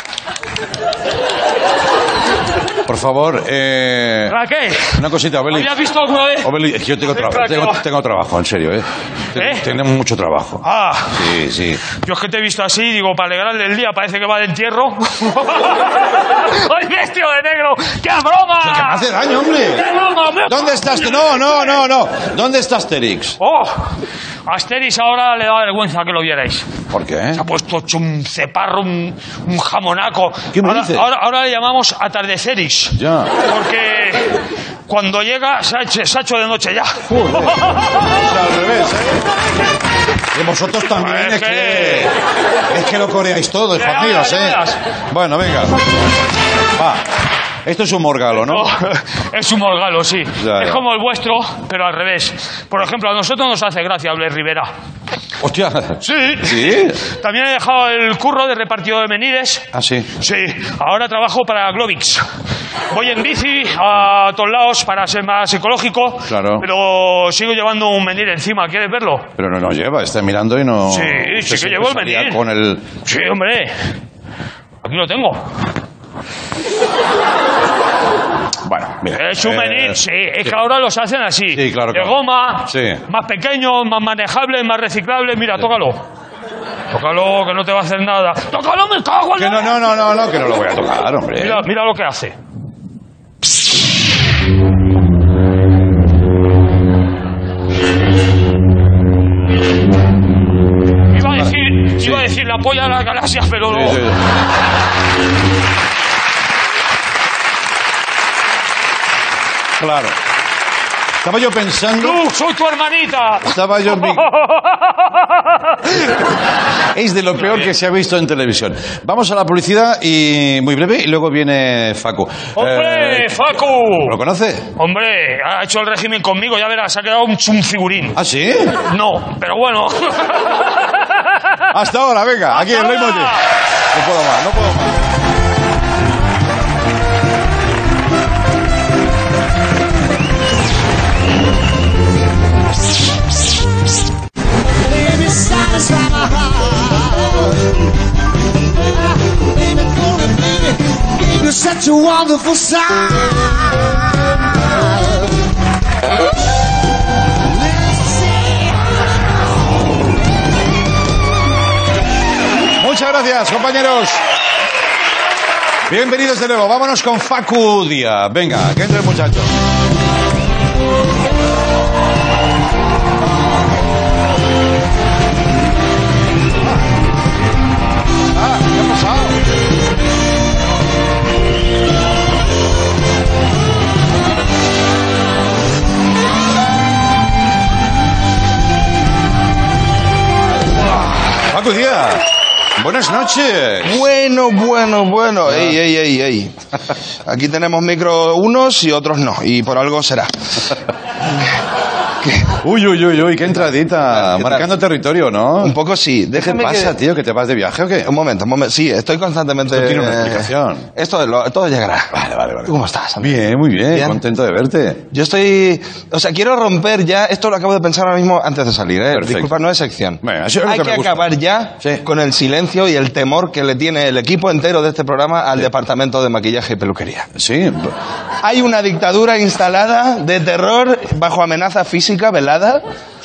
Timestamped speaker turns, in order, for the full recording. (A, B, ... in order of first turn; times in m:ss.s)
0:02.9-0:04.4 A
0:04.3-0:05.0 B
0:04.9-0:05.7 A
0:05.5-0:06.5 B
0:06.4-0:11.8 A
0:07.1-0:07.8 B
0:09.3-0:09.7 B
0:10.6-0:11.3 B
0:11.9-0:19.1 B
0:18.6-0:19.9 A
0:19.7-0:21.6 B
0:20.5-0:23.4 A
0:23.4-0:23.9 B
0:24.5-0:26.7 B
0:26.9-0:27.4 A
0:27.3-0:34.4 B
0:30.5-0:31.0 A
0:33.0-0:33.3 A
0:34.9-0:37.0 B
0:37.1-0:39.1 A
0:40.3-0:42.2 A
0:41.0-0:42.1 B
0:42.7-0:45.8 A
0:43.8-0:44.8 B
0:46.8-0:47.0 A
0:47.6-0:48.7 A
0:48.5-0:54.7 B
0:50.4-0:50.8 A
0:55.4-0:57.0 A
0:56.0-0:59.7 B
0:59.7-1:00.1 A
1:00.2-1:02.2 B
1:02.9-1:09.3 B
1:06.2-1:06.6 A
1:09.4-1:12.9 A
1:10.9-1:12.4 B
1:13.0-1:13.8 B
1:14.8-1:15.4 B
1:18.6-1:20.0 A
1:19.1-1:26.0 B
1:21.5-1:23.0 A
1:26.9-1:29.8 B
1:29.4-1:31.7 A
1:31.4-1:32.4 B
1:41.1-1:44.1 B
1:41.4-1:42.3 A
1:43.7-1:44.2 A
1:49.8-1:50.2 A
1:51.2-1:52.2 A
1:52.0-1:55.8 B
1:53.4-1:54.2 A
1:56.9-2:04.7 A
1:57.4-1:57.7 B
2:02.6-2:04.2 B
2:04.8-2:08.2 B
2:08.2-2:08.8 A
2:08.7-2:11.0 B
2:11.7-2:13.4 A
2:12.5-2:13.4 B
2:13.9-2:15.0 A
2:24.9-2:27.7 C
2:28.9-2:35.3 C
2:37.5-2:39.2 C
2:42.8-2:44.2 A
2:45.9-2:49.5 A
2:58.3-2:59.4 A
3:11.3-3:14.0 A
3:13.8-3:16.6 D
3:17.2-3:20.7 D
3:22.2-3:22.5 D
3:22.6-3:25.8 A
3:24.1-3:24.7 D
3:25.6-3:27.0 D
3:26.3-3:28.1 A
3:28.0-3:32.1 D
3:29.7-3:30.9 A
3:32.1-3:35.0 A
3:32.7-3:34.2 D
3:35.1-3:47.3 D
3:39.1-3:39.6 A
3:40.2-3:41.3 A
3:47.4-3:48.0 A
3:48.4-3:52.9 D